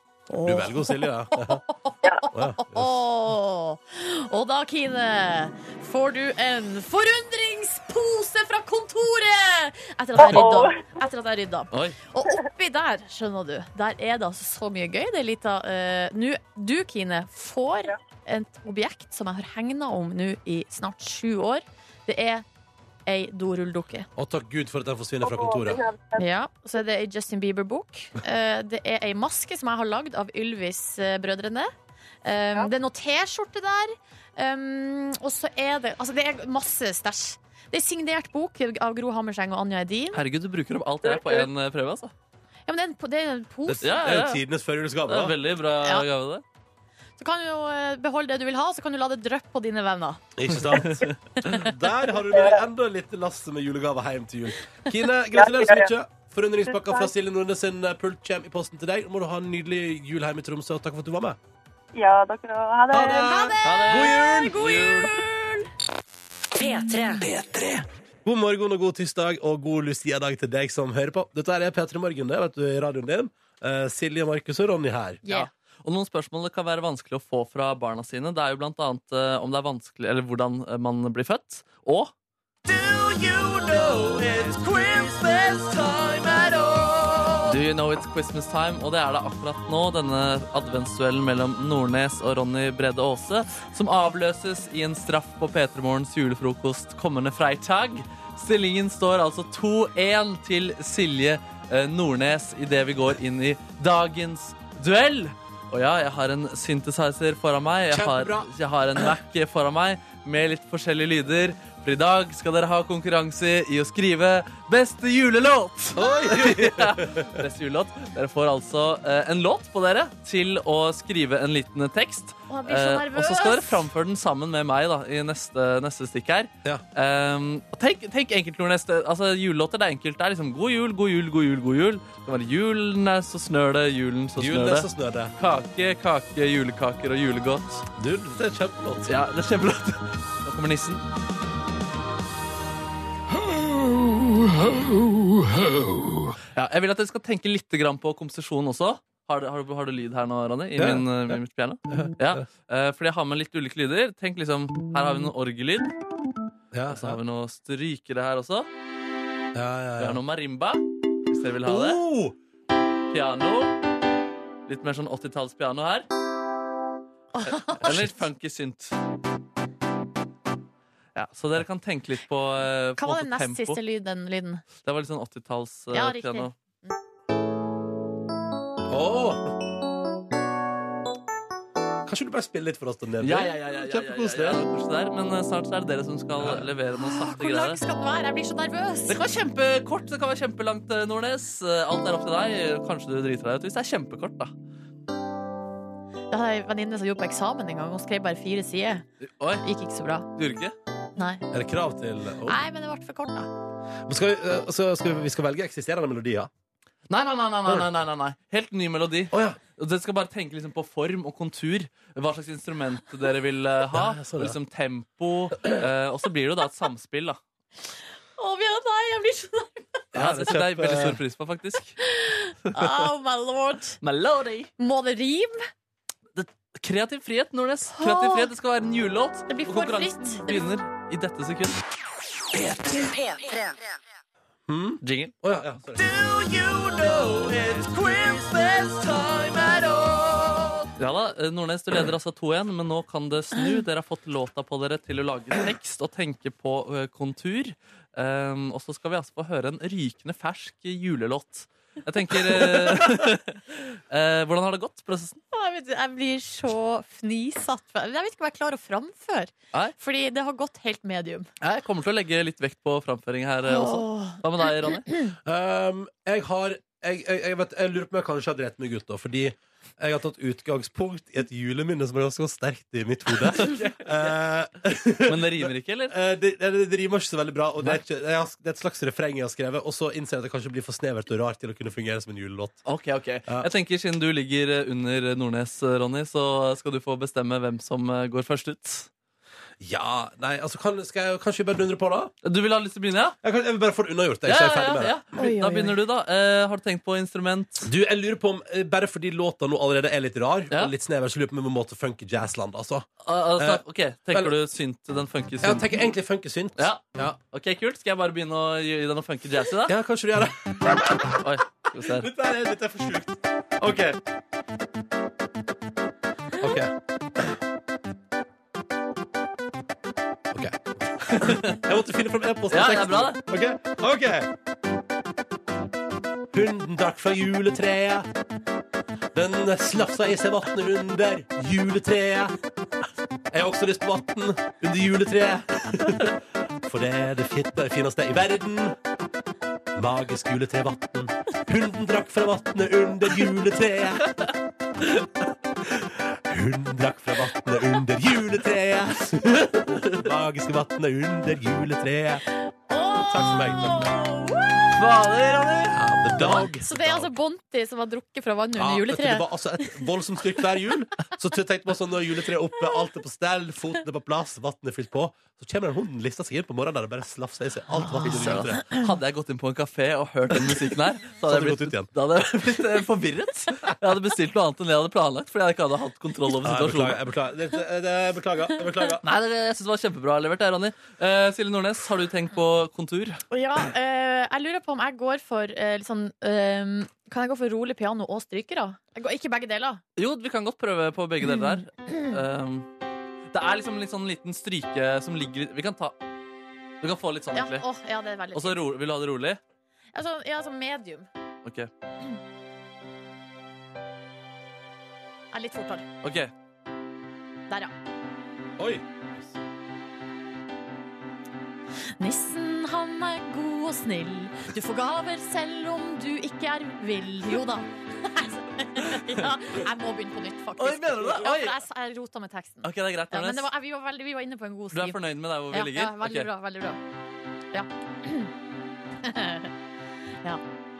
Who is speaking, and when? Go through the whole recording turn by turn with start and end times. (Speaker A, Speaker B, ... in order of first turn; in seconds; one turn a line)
Speaker A: 0.3-22.4
Speaker B: 0.4-1.6
Speaker B: 2.3-3.0
Speaker C: 10.2-10.8
Speaker D: 11.7-12.0
Speaker A: 23.1-24.1
Speaker B: 24.1-25.8
Speaker C: 25.2-26.3
Speaker A: 26.2-31.7
Speaker A: 32.2-40.2
Speaker D: 40.1-42.1
Speaker C: 41.1-41.4
Speaker A: 42.7-44.0
Speaker B: 43.7-45.3
Speaker D: 43.8-44.4
Speaker D: 45.1-46.4
Speaker A: 47.2-50.2
Speaker B: 50.4-61.4
Speaker C: 52.3-52.6
Speaker C: 55.3-55.9
Speaker C: 56.7-57.1
Speaker C: 61.9-63.4
Speaker B: 62.9-64.8
Speaker A: 63.2-65.7
Speaker D: 63.6-65.1
Speaker E: 66.5-67.8
Speaker B: 68.2-75.2
Speaker A: 75.2-75.5
Speaker D: 75.2-82.1
Speaker B: 82.7-86.2
Speaker D: 87.4-137.8
Speaker B: 107.9-108.5
Speaker B: 116.0-117.3
Speaker A: 116.0-116.3
Speaker A: 122.5-123.8
Speaker B: 134.4-135.3
Speaker B: 137.9-139.2
Speaker D: 139.1-141.0
Speaker B: 143.4-146.3
Speaker D: 146.5-155.9
Speaker B: 150.8-152.4
Speaker B: 156.7-157.2
Speaker D: 156.9-158.7
Speaker B: 159.5-160.2
Speaker D: 160.0-162.0
Speaker B: 161.6-162.3
Speaker D: 163.1-163.8
Speaker D: 164.7-166.1
Speaker A: 167.3-168.0
Speaker D: 167.6-169.0
Speaker D: 171.1-173.8
Speaker A: 173.0-174.6
Speaker D: 174.8-176.5
Speaker A: 175.9-176.9
Speaker B: 178.9-179.6
Speaker B: 182.0-184.6
Speaker D: 183.2-187.8
Speaker B: 186.4-186.7
Speaker A: 187.0-189.2
Speaker D: 189.1-194.5
Speaker A: 196.3-199.0
Speaker D: 199.2-199.6
Speaker A: 199.6-200.3
Speaker D: 200.3-200.7
Speaker A: 201.2-201.4
Speaker B: 201.5-202.6
Speaker A: 202.5-203.5
Speaker B: 204.1-206.5
Speaker D: 207.1-217.4
Speaker B: 209.3-209.6
Speaker B: 213.9-214.6
Speaker A: 218.4-219.9
Speaker B: 220.1-221.2
Speaker D: 220.1-222.0
Speaker A: 222.0-224.0
Speaker D: 224.0-224.7
Speaker A: 224.8-225.6
Speaker D: 226.3-231.8
Speaker A: 227.9-228.5
Speaker A: 229.5-230.7
Speaker E: 232.5-234.0
Speaker B: 234.7-240.8
Speaker D: 235.0-235.3
Speaker D: 241.0-255.4
Speaker B: 252.5-253.0
Speaker A: 255.5-261.5
Speaker D: 261.6-265.1
Speaker A: 263.7-264.4
Speaker B: 265.4-282.8
Speaker D: 273.5-274.3
Speaker D: 275.2-276.1
Speaker D: 282.8-289.1
Speaker B: 289.8-292.3
Speaker D: 292.4-293.4
Speaker B: 293.4-295.1
Speaker D: 294.4-297.9
Speaker A: 295.4-295.9
Speaker B: 297.8-304.5
Speaker D: 303.2-306.0
Speaker B: 305.6-307.4
Speaker D: 306.8-309.9
Speaker B: 309.9-314.2
Speaker D: 311.3-312.3
Speaker B: 316.6-316.9
Speaker B: 320.5-324.5
Speaker D: 321.3-321.8
Speaker D: 322.7-323.4
Speaker B: 326.5-328.3
Speaker B: 329.3-332.5
Speaker B: 333.5-338.9
Speaker B: 339.9-344.3
Speaker B: 345.8-352.4
Speaker A: 352.7-354.9
Speaker B: 353.2-354.1
Speaker D: 354.9-356.0
Speaker B: 355.9-357.3
Speaker A: 356.4-360.0
Speaker B: 358.8-368.9
Speaker D: 368.2-377.2
Speaker B: 371.4-372.1
Speaker B: 376.6-379.2
Speaker D: 379.2-383.4
Speaker A: 383.5-390.0
Speaker D: 390.2-392.9
Speaker D: 393.5-396.2
Speaker D: 397.0-397.8
Speaker A: 397.5-398.8
Speaker D: 398.5-399.6
Speaker A: 400.1-401.3
Speaker D: 401.6-401.9
Speaker A: 405.5-406.1
Speaker D: 406.2-406.5
Speaker B: 408.8-409.5
Speaker A: 412.2-425.2
Speaker D: 420.8-421.8
Speaker D: 422.8-423.7
Speaker D: 424.9-426.5
Speaker A: 425.7-427.0
Speaker A: 427.7-428.5
Speaker A: 429.2-429.7